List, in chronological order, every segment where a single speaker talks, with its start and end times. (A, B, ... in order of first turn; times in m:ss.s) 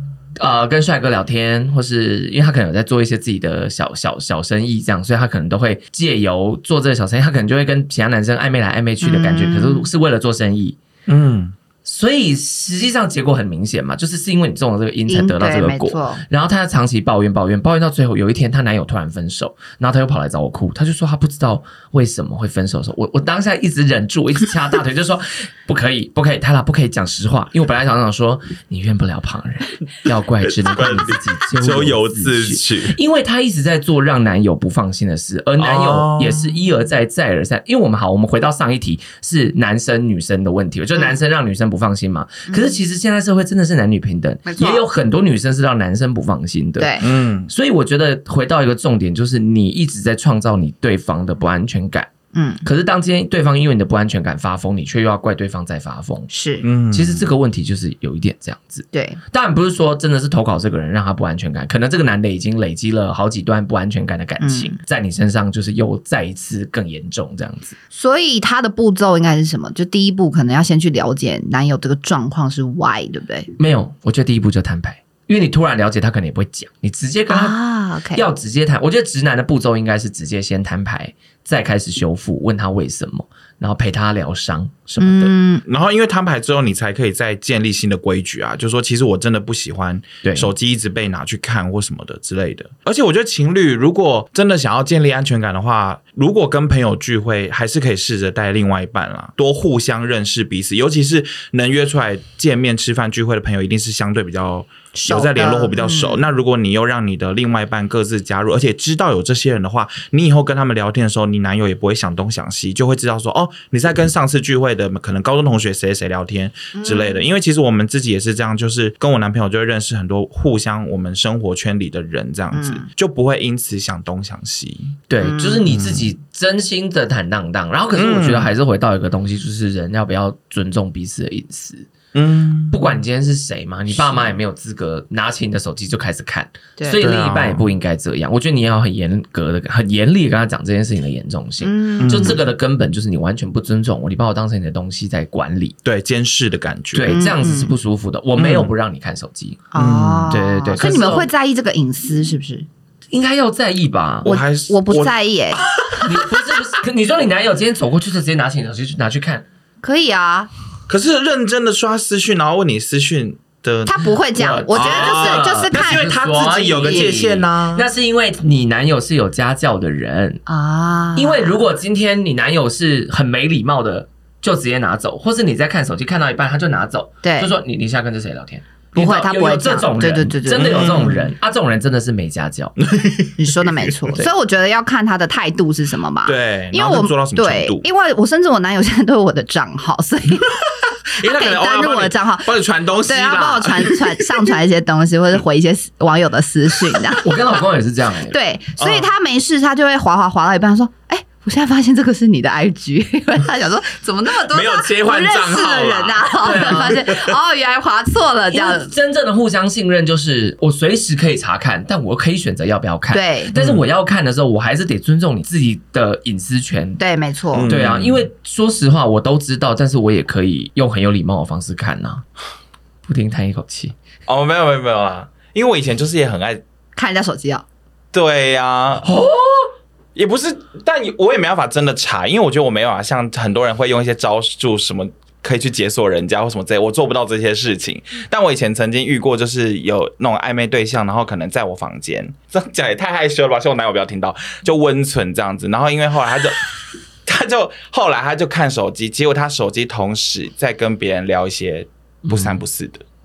0:00.4-0:10.8 A
0:09.0-0:09.9 B
0:11.1-0:11.5 C
0:11.8-0:52.1 A
0:15.1-0:16.2 B
0:30.6-0:32.9 C
0:35.6-0:36.6 C
0:42.5-0:42.8 B
0:44.4-0:44.8 B
0:46.8-0:47.1 B
0:47.0-0:47.5 C
0:52.3-0:52.6 B
0:52.6-0:56.3 A
0:56.3-0:56.6 B
0:56.6-0:57.2 C
0:56.9-1:07.8 A
0:58.9-0:59.2 B
1:04.4-1:04.8 B
1:07.9-1:13.5 B
1:13.6-1:17.6 A
1:17.3-1:18.2 B
1:18.1-1:25.3 A
1:25.0-1:25.6 B
1:25.6-2:05.0 C
1:30.2-1:30.5 A
1:45.0-1:46.2 B
1:56.7-1:57.2 B
2:02.5-2:02.9 B
2:05.1-2:11.9 A
2:05.2-2:05.6 B
2:05.7-2:06.1 C
2:07.9-2:08.5 C
2:12.1-2:12.8 C
2:12.7-2:25.8 A
2:17.0-2:17.6 C
2:21.6-2:22.4 B
2:22.0-2:22.4 C
2:25.8-2:27.2 C
2:26.9-2:29.6 A
2:27.1-2:27.7 B
2:28.4-2:28.7 C
2:29.7-2:32.7 B
2:29.8-2:30.3 C
2:30.3-2:31.3 A
2:33.1-2:34.3 A
2:34.2-2:35.1 C
2:34.2-2:35.6 B
2:35.9-2:39.4 A
2:39.8-2:40.5 B
2:40.9-2:44.1 C
2:43.8-2:46.2 B
2:44.4-2:50.4 A
2:44.7-2:47.8 C
2:46.8-2:47.1 B
2:50.5-2:51.6 B
2:51.2-3:02.7 A
2:57.2-2:57.5 B
2:59.0-3:01.2 B
3:00.5-3:01.2 C
3:02.8-3:04.1 C
3:03.4-3:12.5 B
3:06.2-3:07.8 C
3:11.2-3:14.5 C
3:13.0-3:17.6 B
3:17.2-3:18.4 A
3:18.3-3:28.9 B
3:18.8-3:19.1 C
3:24.5-3:27.4 C
3:26.4-3:27.0 A
3:28.5-3:37.0 A
3:33.1-3:33.5 B
3:33.5-3:33.8 C
3:37.0-3:37.7 B
3:37.5-3:38.3 C
3:37.7-3:42.2 A
3:43.0-3:43.9 A
3:44.3-3:46.6 C
3:47.0-3:47.6 B
3:48.1-3:49.0 C
3:49.0-3:49.7 A
3:50.1-4:06.7 C
4:07.2-4:13.0 C
4:12.2-4:12.6 A